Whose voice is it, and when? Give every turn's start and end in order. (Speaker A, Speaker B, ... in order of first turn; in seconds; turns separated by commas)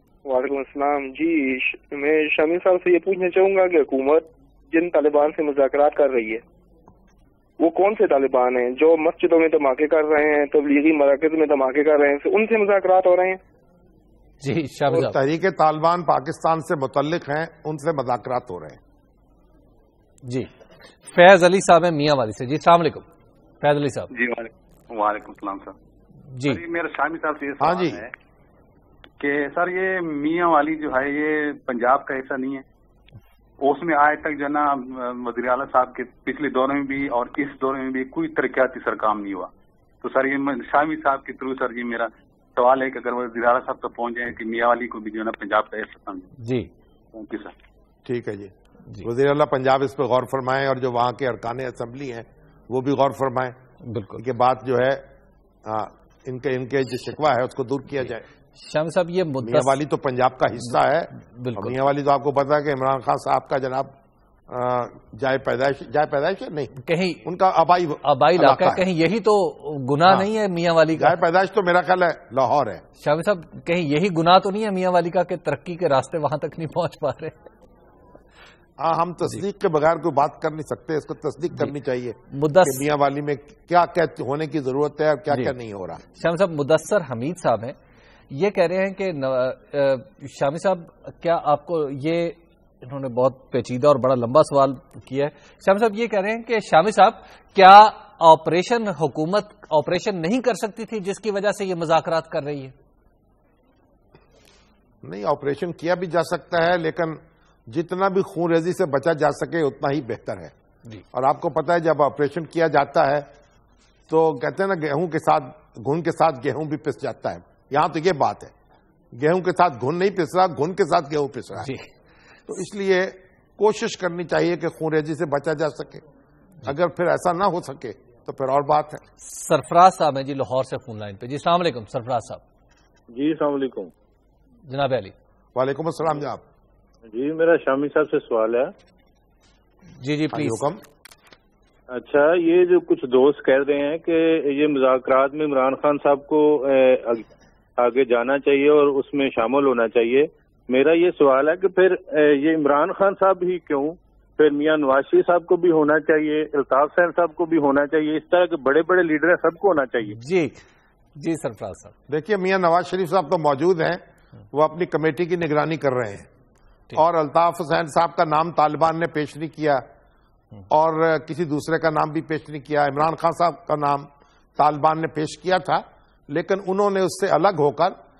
Speaker A: 0.2-6.4, Speaker A: 7.6-13.4, Speaker B: 14.4-15.2, Speaker C: 14.9-18.8, Speaker B: 20.2-20.5, Speaker B: 21.1-23.1, Speaker B: 23.6-24.1, Speaker D: 24.1-25.7, Speaker B: 26.3-26.6, Speaker D: 26.4-28.1, Speaker C: 27.6-28.0, Speaker D: 29.2-32.6, Speaker D: 33.6-39.5, Speaker D: 40.0-46.3, Speaker B: 46.4-46.7, Speaker D: 47.1-47.5, Speaker C: 48.0-53.6, Speaker B: 53.8-54.2, Speaker C: 54.2-55.1, Speaker C: 55.6-58.2, Speaker B: 58.6-59.8, Speaker C: 59.4-63.9, Speaker B: 61.2-61.8, Speaker C: 64.5-68.9, Speaker B: 66.8-67.2, Speaker B: 68.0-71.2, Speaker C: 70.9-72.8, Speaker B: 73.0-77.3, Speaker C: 78.8-86.0, Speaker B: 82.3-82.9, Speaker B: 86.2-87.8, Speaker B: 88.3-102.7, Speaker C: 105.0-110.5, Speaker C: 111.1-113.3, Speaker C: 114.1-118.5, Speaker C: 119.1-121.7, Speaker B: 121.6-121.9, Speaker C: 122.5-126.0, Speaker C: 126.6-129.0, Speaker B: 129.2-132.4, Speaker E: 133.1-133.9, Speaker B: 134.7-135.1, Speaker C: 135.5-136.4, Speaker E: 137.1-138.7, Speaker B: 140.0-140.7, Speaker C: 140.3-140.8, Speaker E: 141.9-160.2, Speaker B: 160.1-160.6, Speaker B: 161.2-161.9, Speaker C: 162.1-166.3, Speaker C: 166.9-169.9, Speaker C: 170.7-177.9